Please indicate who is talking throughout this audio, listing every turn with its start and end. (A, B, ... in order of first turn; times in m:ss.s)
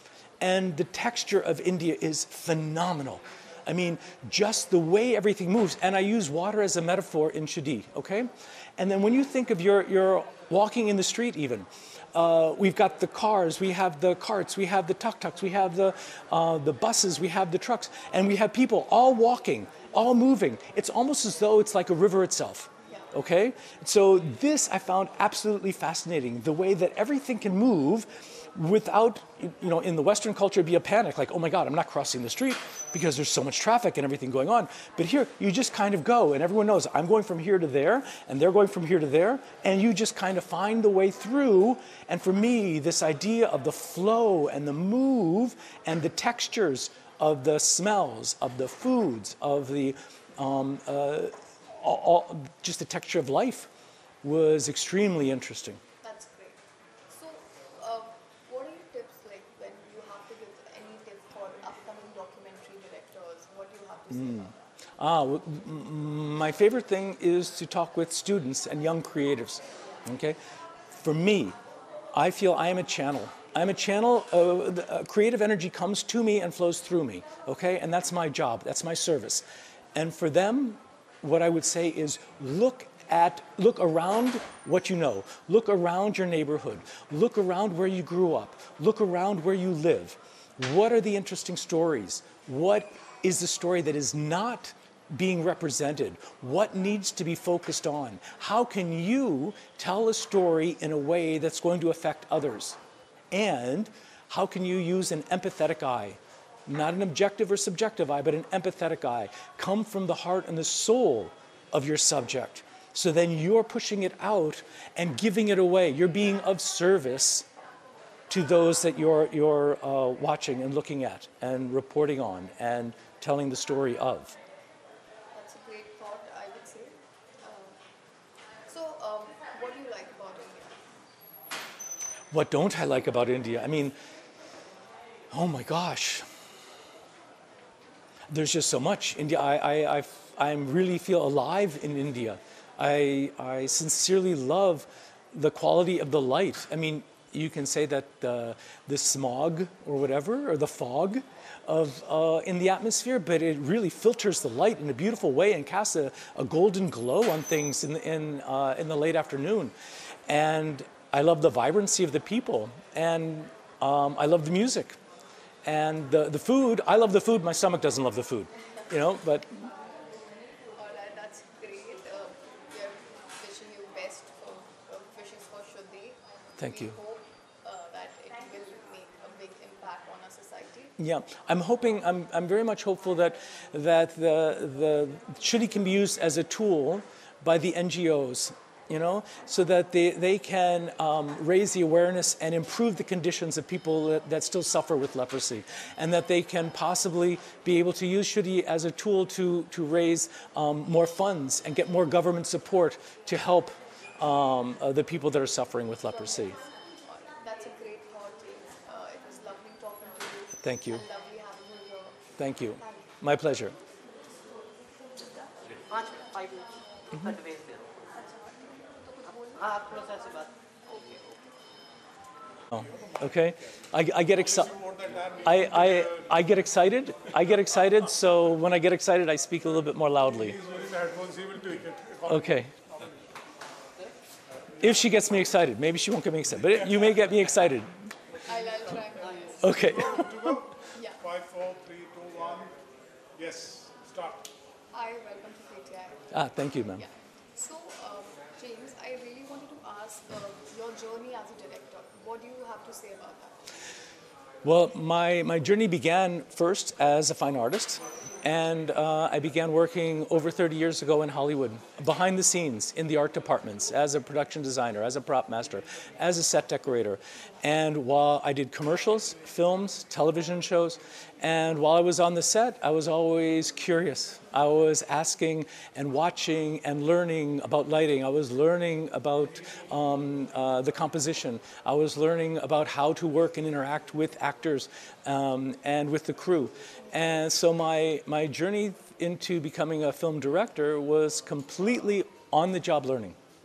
0:00.4-0:53.7 A
0:22.8-0:23.1 B
0:54.2-0:55.8 A
0:56.0-1:04.6 B
1:04.1-1:10.4 A
1:10.9-1:11.6 A
1:12.1-1:42.8 A
1:43.3-1:57.5 A
1:58.3-2:04.4 A
2:05.3-2:07.8 B
2:08.7-2:10.8 B
2:12.3-2:13.9 A
2:15.3-2:16.2 A
2:18.3-2:39.7 A
2:40.3-2:45.0 A
2:45.6-2:49.7 A
2:50.7-3:00.9 B
2:56.6-2:56.9 A
3:01.0-3:26.6 A
3:26.1-3:33.1 B
3:30.6-3:31.0 A
3:32.4-3:33.7 A
3:35.9-3:38.1 C
3:38.4-3:41.4 B
3:39.6-3:40.5 C
3:42.7-3:44.7 A
3:42.8-3:43.5 D
3:44.3-3:46.4 D
3:45.4-3:50.6 A
3:50.2-3:53.2 D
3:52.2-3:52.7 A
3:54.8-3:57.9 A
3:56.7-3:57.3 D
3:58.4-4:00.0 B
3:59.6-4:00.5 A
3:59.7-4:02.7 D
4:00.9-4:01.2 B
4:03.3-4:04.5 D
4:04.9-4:13.7 B
4:06.3-4:07.0 A
4:14.6-4:53.4 A